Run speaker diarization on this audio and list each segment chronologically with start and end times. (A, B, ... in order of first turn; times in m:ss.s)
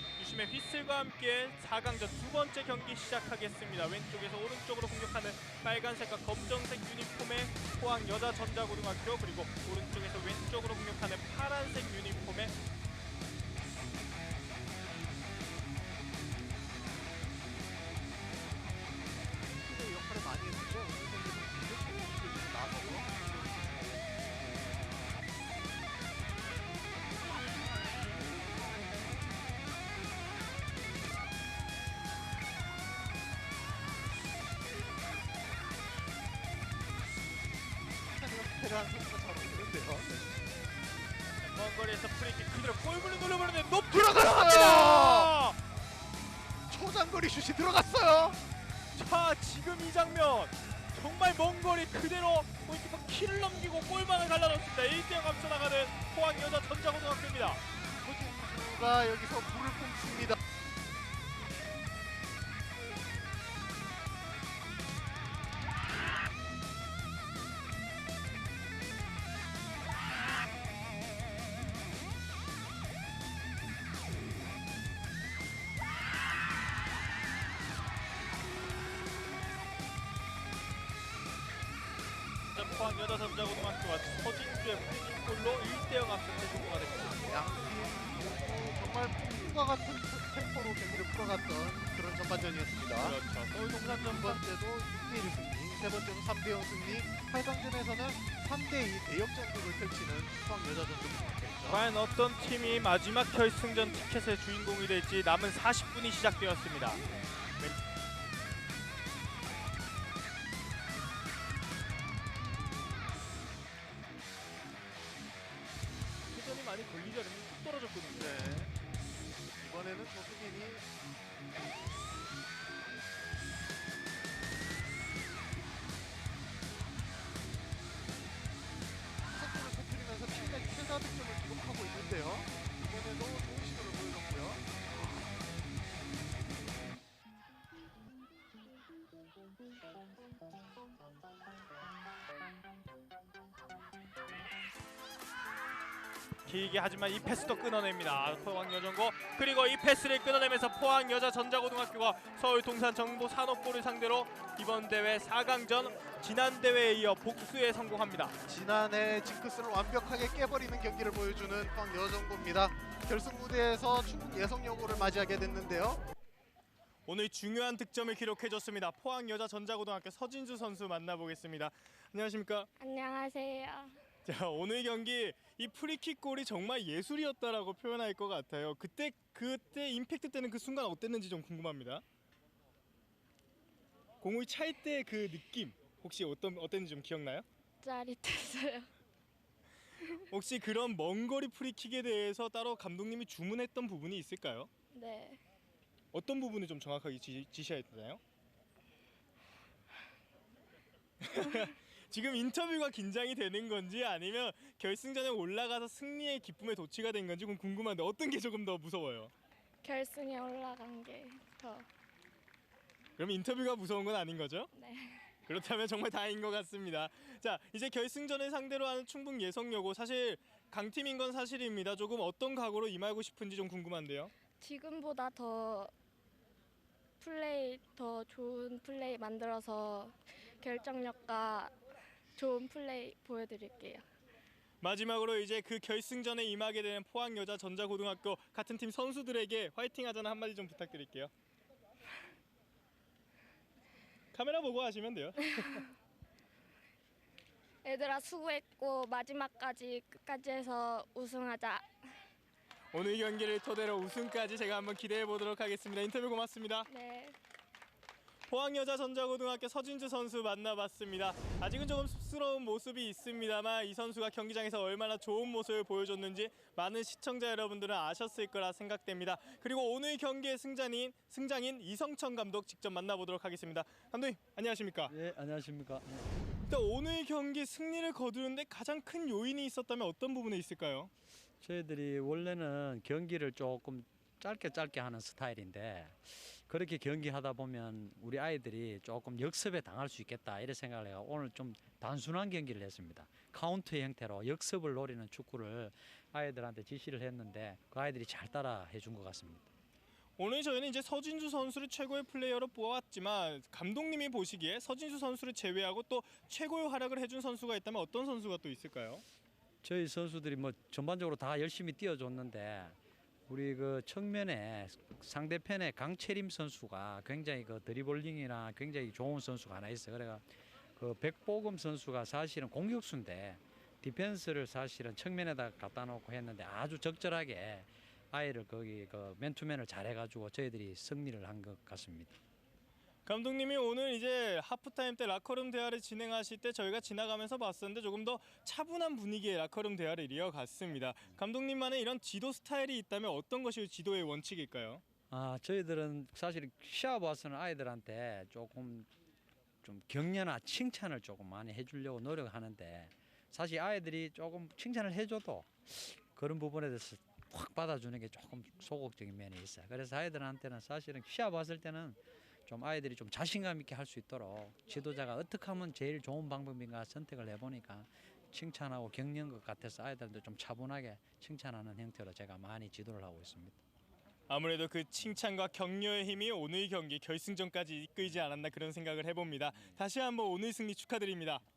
0:00.2-0:12.5 A
0:19.6-0:24.0 B
0:38.1-0:40.4 B
0:41.4-0:45.6 A
0:43.9-0:45.3 B
0:46.7-0:48.4 B
0:48.9-0:57.6 A
0:58.0-1:00.4 B
1:22.5-1:27.2 A
1:27.2-1:33.2 B
1:33.0-1:34.4 A
1:33.8-1:41.8 B
1:41.7-1:47.0 A
1:56.3-1:58.5 A
1:58.1-1:58.7 B
1:59.5-2:00.8 B
2:09.3-2:14.7 B
2:26.4-2:38.4 A
2:38.4-2:46.0 B
2:47.1-2:52.7 A
2:52.8-2:53.9 C
2:54.2-3:02.0 A
3:04.2-3:07.4 A
3:07.8-3:08.9 C
3:10.3-3:14.7 A
3:14.9-3:15.4 C
3:16.1-3:18.2 A
3:21.2-3:29.3 A
3:29.8-3:31.9 C
3:33.2-3:34.7 A
3:34.7-3:35.3 C
3:35.4-3:44.3 A
3:44.6-3:45.9 C
3:47.2-3:51.7 C
3:52.4-3:54.0 C
3:54.8-4:01.3 A
4:04.3-4:05.8 A
4:07.8-4:12.2 C
4:12.9-4:16.9 A
4:16.9-4:17.4 C
4:18.5-4:35.1 A
4:35.1-4:36.3 D
4:36.6-4:41.1 A
4:41.6-4:59.7 D
5:00.4-5:09.2 A
5:09.8-5:32.4 D
5:33.2-5:45.0 A
5:45.3-5:49.1 D
5:49.8-6:13.8 D
6:14.5-6:21.6 A